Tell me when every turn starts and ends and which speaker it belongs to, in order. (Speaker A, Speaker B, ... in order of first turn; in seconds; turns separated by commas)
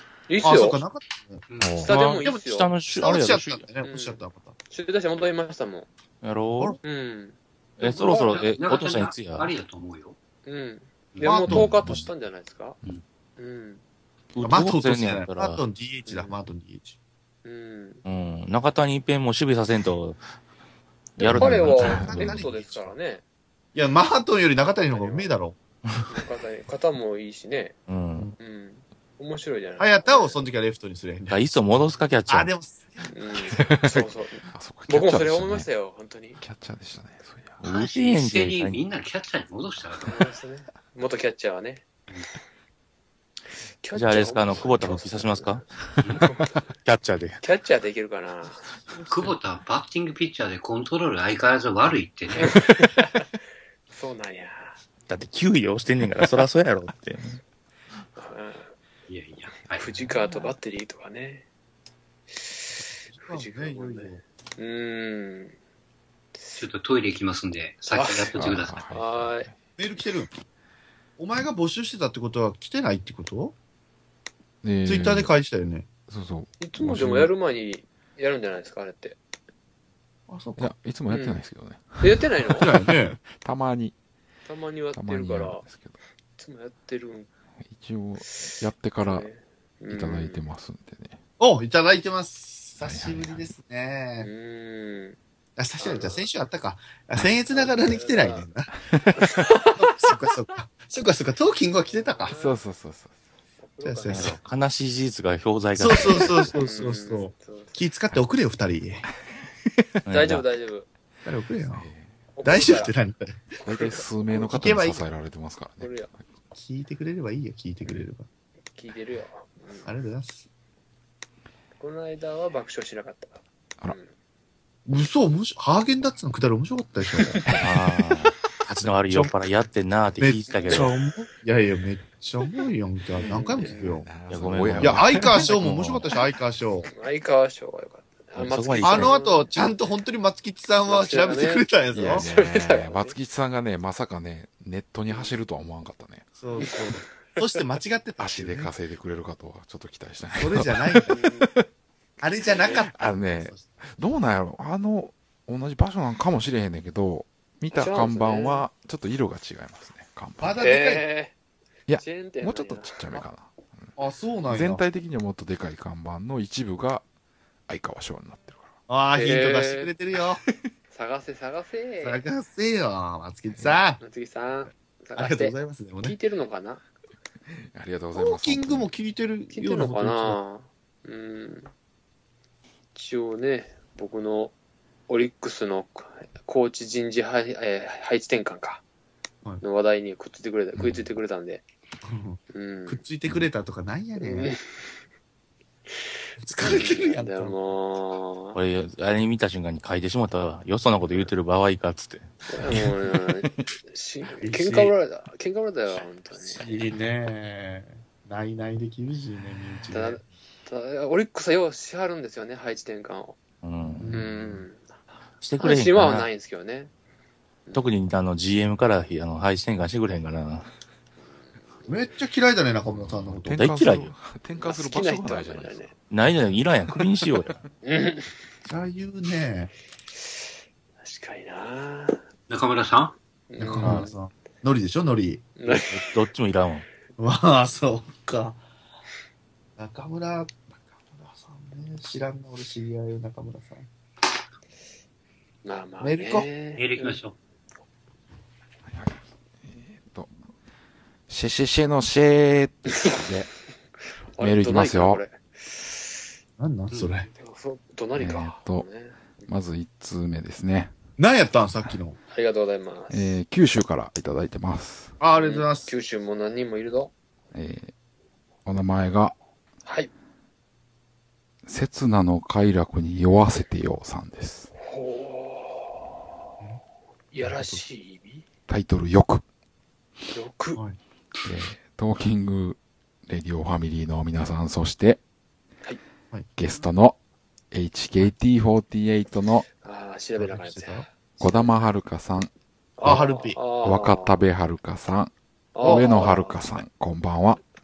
Speaker A: 0.3-0.8, Speaker B: 0.4-1.5, Speaker C: 1.5-1.9, Speaker D: 1.6-3.6, Speaker A: 1.8-2.7, Speaker B: 2.0-4.5, Speaker A: 3.8-5.9, Speaker D: 6.2-6.8, Speaker A: 6.8-8.5, Speaker D: 7.8-9.5, Speaker C: 7.8-10.2, Speaker A: 10.5-12.8, Speaker B: 11.2-12.0, Speaker E: 11.5-12.1, Speaker A: 13.4-13.8, Speaker D: 14.3-15.6, Speaker B: 14.4-17.0, Speaker A: 17.4-18.0, Speaker D: 18.0-20.2, Speaker D: 21.2-22.4, Speaker B: 21.2-23.0, Speaker A: 21.4-23.2, Speaker E: 21.5-22.4, Speaker B: 23.8-25.6, Speaker A: 24.9-25.3, Speaker A: 26.1-27.8, Speaker D: 27.9-28.3, Speaker A: 28.4-30.4, Speaker B: 29.8-31.5, Speaker D: 31.3-32.5, Speaker B: 32.3-33.1, Speaker A: 33.1-36.4, Speaker E: 33.5-35.7, Speaker E: 36.4-37.6, Speaker D: 37.6-38.8, Speaker C: 37.6-40.3, Speaker A: 40.0-41.9, Speaker A: 43.8-45.6, Speaker D: 43.9-45.7, Speaker C: 46.0-46.3, Speaker A: 46.2-46.6, Speaker D: 46.8-47.4, Speaker A: 47.4-48.7, Speaker B: 48.9-49.4, Speaker C: 49.1-52.6, Speaker A: 52.4-53.3, Speaker A: 53.9-54.8, Speaker D: 55.1-57.4, Speaker A: 58.1-58.7, Speaker C: 59.1-59.9, Speaker A: 59.8-61.5, Speaker E: 59.9-60.5, Speaker B: 62.8-64.2, Speaker A: 63.2-65.5, Speaker C: 66.5-68.8, Speaker A: 67.9-69.5, Speaker E: 68.4-69.5, Speaker B: 69.8-70.4, Speaker B: 71.2-73.5, Speaker E: 74.6-75.3, Speaker B: 74.8-75.9, Speaker E: 76.1-77.3, Speaker A: 76.6-79.2, Speaker B: 80.3-80.7, Speaker E: 80.6-84.0, Speaker A: 81.1-81.4, Speaker A: 82.0-82.7, Speaker B: 82.6-83.2, Speaker A: 84.5-85.6, Speaker E: 84.9-85.9, Speaker A: 86.4-87.3, Speaker E: 87.6-89.3, Speaker A: 88.3-90.4, Speaker E: 89.9-91.2, Speaker B: 91.4-94.3, Speaker E: 92.8-93.5, Speaker A: 94.2-95.2, Speaker B: 95.5-98.7, Speaker A: 95.8-96.3, Speaker A: 97.5-98.5, Speaker E: 98.9-99.5, Speaker A: 99.2-99.9, Speaker B: 99.7-102.3, Speaker A: 101.9-102.6, Speaker E: 102.3-103.1, Speaker A: 103.6-104.4, Speaker B: 103.8-104.4, Speaker D: 104.1-106.5, Speaker B: 105.8-109.0, Speaker A: 106.5-107.8, Speaker D: 110.0-110.4, Speaker A: 110.1-110.9, Speaker B: 111.2-111.9, Speaker E: 111.7-112.1, Speaker A: 112.3-112.9, Speaker B: 112.4-113.5, Speaker E: 113.6-116.1, Speaker A: 113.6-114.4, Speaker B: 114.3-115.0, Speaker A: 115.8-116.1, Speaker B: 116.5-118.3, Speaker A: 118.8-119.9, Speaker B: 119.8-120.5, Speaker A: 121.8-124.1, Speaker B: 124.9-127.4, Speaker E: 127.4-128.3, Speaker D: 127.6-130.9, Speaker B: 128.7-129.3, Speaker B: 130.2-134.1, Speaker A: 130.5-130.9, Speaker A: 133.2-133.9, Speaker E: 133.6-135.7, Speaker D: 134.3-136.0, Speaker B: 134.8-136.9, Speaker A: 136.9-139.5, Speaker D: 138.4-139.1, Speaker B: 138.8-142.3, Speaker A: 140.8-143.2, Speaker E: 141.9-146.4, Speaker A: 145.1-145.4, Speaker B: 146.4-148.7, Speaker A: 146.6-146.9, Speaker E: 148.2-151.6, Speaker B: 150.4-151.2, Speaker A: 151.1-151.5, Speaker B: 152.2-153.8, Speaker E: 152.9-160.7, Speaker A: 157.7-158.7, Speaker B: 160.4-161.1, Speaker A: 160.6-161.3, Speaker E: 161.9-164.0, Speaker A: 162.0-163.3, Speaker B: 164.0-164.8, Speaker E: 164.5-167.0, Speaker E: 167.7-168.7, Speaker B: 168.9-170.4, Speaker A: 169.1-169.9, Speaker A: 170.9-172.2, Speaker B: 172.0-174.0, Speaker A: 174.0-176.8, Speaker B: 175.2-176.2, Speaker E: 177.6-178.9, Speaker B: 178.1-180.4, Speaker A: 179.5-181.7, Speaker A: 182.9-184.5, Speaker A: 185.1-188.8, Speaker A: 189.6-191.6, Speaker B: 192.0-194.5, Speaker A: 192.5-193.0, Speaker A: 194.2-194.6, Speaker B: 196.4-197.6, Speaker A: 196.6-198.6, Speaker D: 198.5-202.8, Speaker A: 202.5-206.8, Speaker B: 204.4-204.9, Speaker B: 206.4-210.2, Speaker A: 209.9-213.4, Speaker D: 213.6-214.2, Speaker B: 214.0-214.5, Speaker A: 214.1-214.9, Speaker D: 215.4-216.3, Speaker A: 215.6-216.9, Speaker A: 217.7-217.9, Speaker D: 217.7-220.7, Speaker B: 221.9-223.6, Speaker E: 222.9-226.0, Speaker D: 223.5-224.1, Speaker A: 224.5-225.9, Speaker D: 226.1-227.6, Speaker A: 227.8-228.3, Speaker B: 228.6-229.7, Speaker A: 231.0-232.2, Speaker C: 232.5-233.1, Speaker A: 233.5-234.1, Speaker B: 233.6-235.5, Speaker D: 233.8-234.1, Speaker A: 235.6-236.1, Speaker D: 235.7-236.9, Speaker B: 237.2-238.6, Speaker B: 239.8-243.9, Speaker A: 245.6-247.2, Speaker B: 246.0-246.5, Speaker C: 246.8-247.4, Speaker E: 248.9-250.3, Speaker E: 251.3-253.5, Speaker A: 254.4-256.0, Speaker E: 254.4-255.2, Speaker B: 256.6-257.3, Speaker A: 257.3-259.5, Speaker E: 258.1-258.9, Speaker E: 259.5-260.9, Speaker B: 261.2-262.2, Speaker A: 262.3-263.4, Speaker E: 263.1-265.2, Speaker B: 265.2-265.9, Speaker A: 265.3-267.1, Speaker E: 267.5-267.9, Speaker E: 268.6-269.4, Speaker A: 269.9-270.1, Speaker E: 271.6-274.7, Speaker A: 274.8-275.9, Speaker A: 277.3-278.4, Speaker B: 277.4-277.8, Speaker E: 278.7-279.4, Speaker A: 280.3-280.8, Speaker E: 281.4-285.2, Speaker E: 286.6-287.1, Speaker E: 287.7-289.7, Speaker A: 289.8-291.8, Speaker B: 290.4-291.1, Speaker E: 291.4-297.6, Speaker A: 293.0-294.4, Speaker B: 293.0-293.6, Speaker A: 295.8-296.7, Speaker B: 295.8-296.3